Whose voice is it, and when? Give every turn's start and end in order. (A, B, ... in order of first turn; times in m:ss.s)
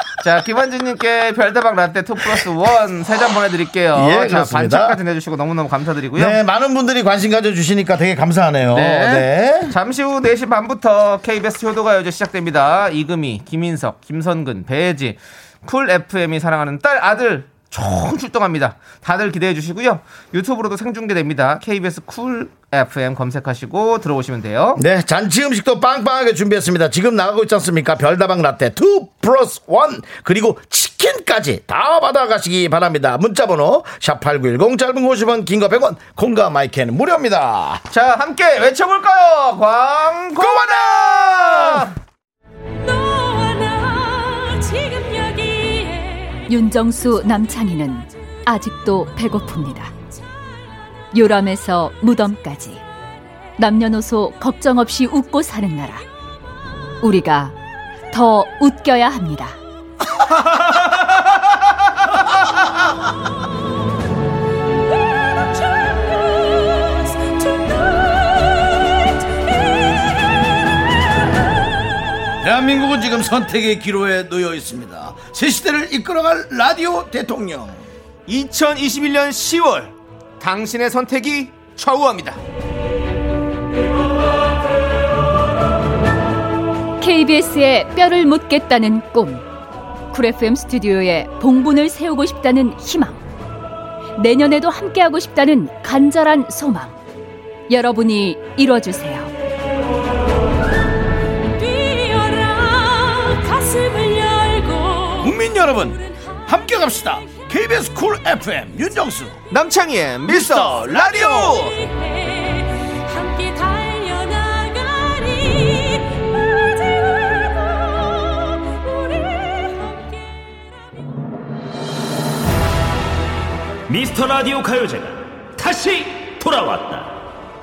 0:00.2-0:06.4 A
0:03.9-0:05.0 B
0:06.2-0:09.7 B
0:08.7-0:24.8 A
0:24.8-0:37.8 B
0:37.9-0:41.9 A
0:40.4-0:41.8 B
0:46.5-0:49.9 C
0:51.1-0:52.8 C
0:53.6-0:56.0 C
0:57.0-0:57.5 C
0:58.1-0:59.5 C
1:12.4-1:17.8 B
1:18.3-1:22.4 A
1:27.0-1:29.4 C
1:30.1-1:33.2 C
1:34.2-1:36.9 C
1:37.7-1:39.3 C
1:41.8-1:45.1 D
1:45.2-1:49.4 B
1:49.5-1:51.8 A
1:50.3-1:51.6 B
1:53.2-1:56.0 D
2:03.9-2:07.1 E